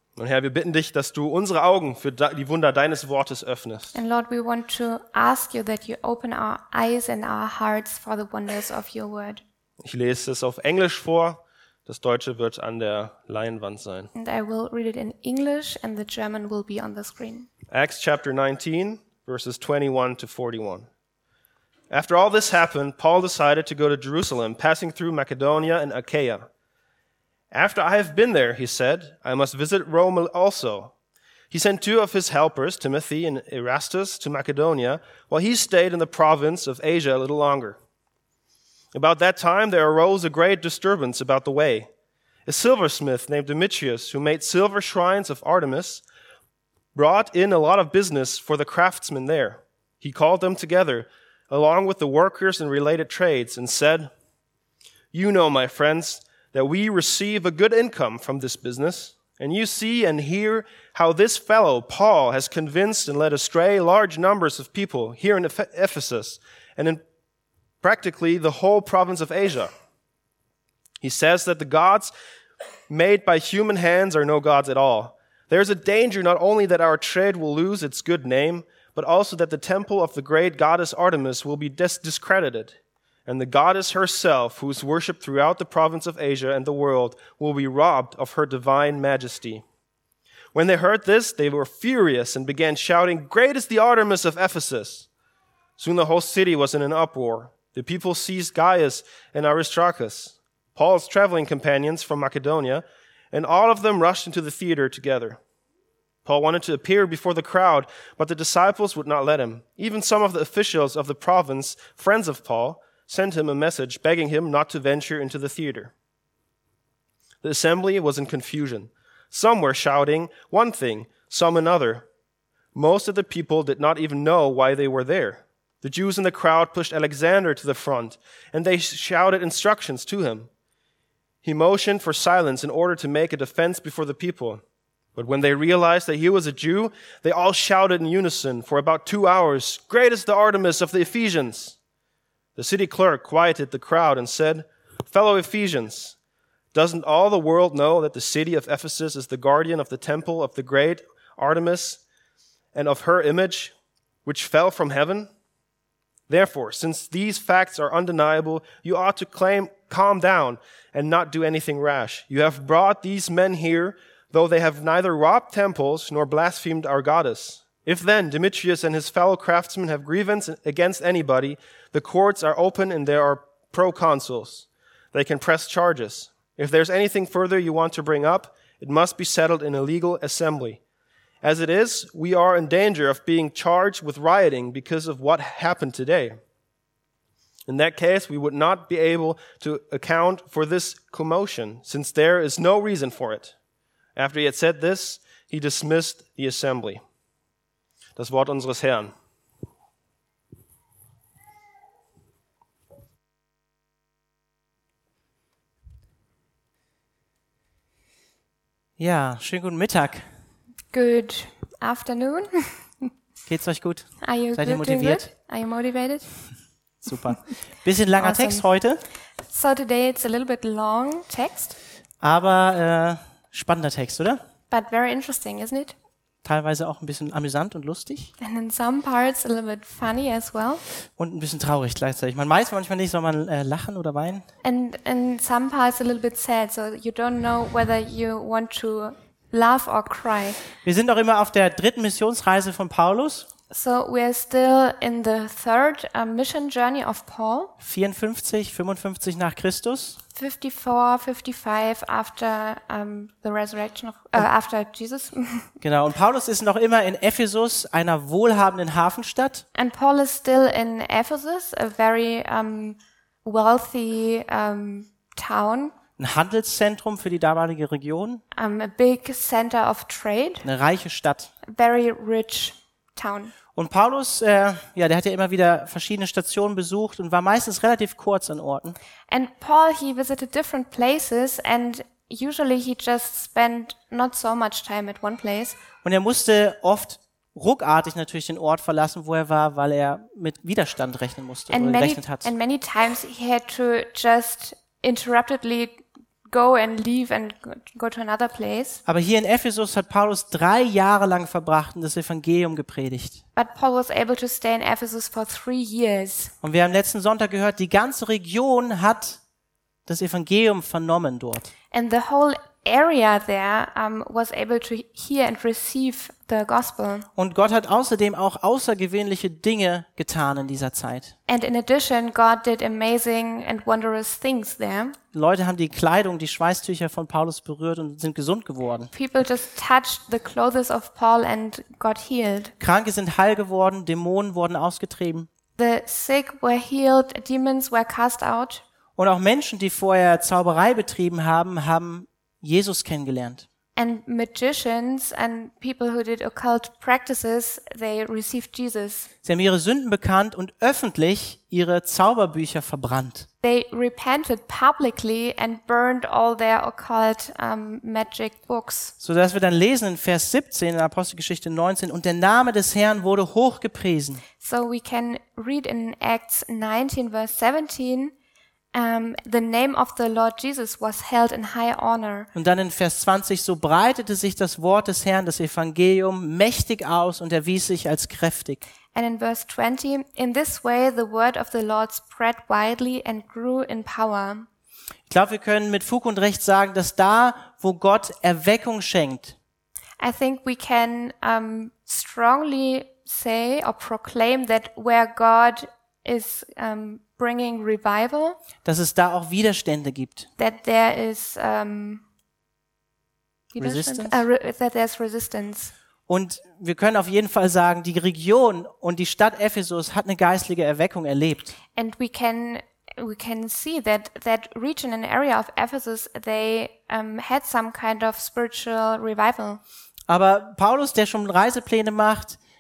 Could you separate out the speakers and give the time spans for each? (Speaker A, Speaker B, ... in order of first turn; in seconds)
Speaker A: 0.2-4.0, 9.8-14.1, 17.7-20.9, 21.9-26.5, 27.5-30.9, 31.5-37.8, 38.9-41.9, 42.5-46.0, 47.0-54.1, 55.1-67.0, 67.8-69.7, 71.0-72.1, 72.9-82.8, 83.3-89.6, 90.5-95.1, 95.8-105.4, 106.2-115.9, 117.4-122.0, 122.8-130.5, 131.4-134.6, 135.2-141.8, 142.6-146.2, 146.7-152.0, 152.7-153.7, 154.2-155.3, 156.3-180.8, 181.4-186.3, 187.7-193.6, 194.2-197.0, 198.2-199.1
Speaker B: 3.9-9.4, 14.1-17.5, 210.9-213.1, 214.2-216.5, 218.2-218.7, 219.4-221.8, 224.7-225.9, 228.4-230.8, 234.6-240.6, 243.7-247.7, 250.3-255.7, 259.8-265.9, 268.5-270.7, 271.6-273.5, 279.3-285.8, 291.7-299.0, 303.6-306.5, 311.9-317.3, 321.5-325.2, 329.1-332.7, 335.8-338.8, 344.0-349.3, 353.6-359.1, 364.6-368.3, 368.9-372.5, 379.1-384.7, 390.2-398.6, 400.6-402.2, 403.7-405.9, 411.9-419.8
Speaker C: 209.0-210.3, 213.5-215.3, 217.1-219.0, 222.2-224.4, 226.4-228.3, 231.1-234.4, 240.8-243.5, 247.8-250.2, 255.8-259.6, 266.2-268.4, 270.6-271.5, 273.8-279.0, 286.0-292.5, 299.1-303.4, 306.6-309.4, 310.1-311.7, 317.4-321.4, 325.3-329.1, 332.8-335.5, 339.2-343.7, 349.4-353.5, 359.2-364.4, 372.5-378.8, 385.3-389.6, 398.8-400.5, 403.8-404.5, 406.3-411.8, 420.3-422.6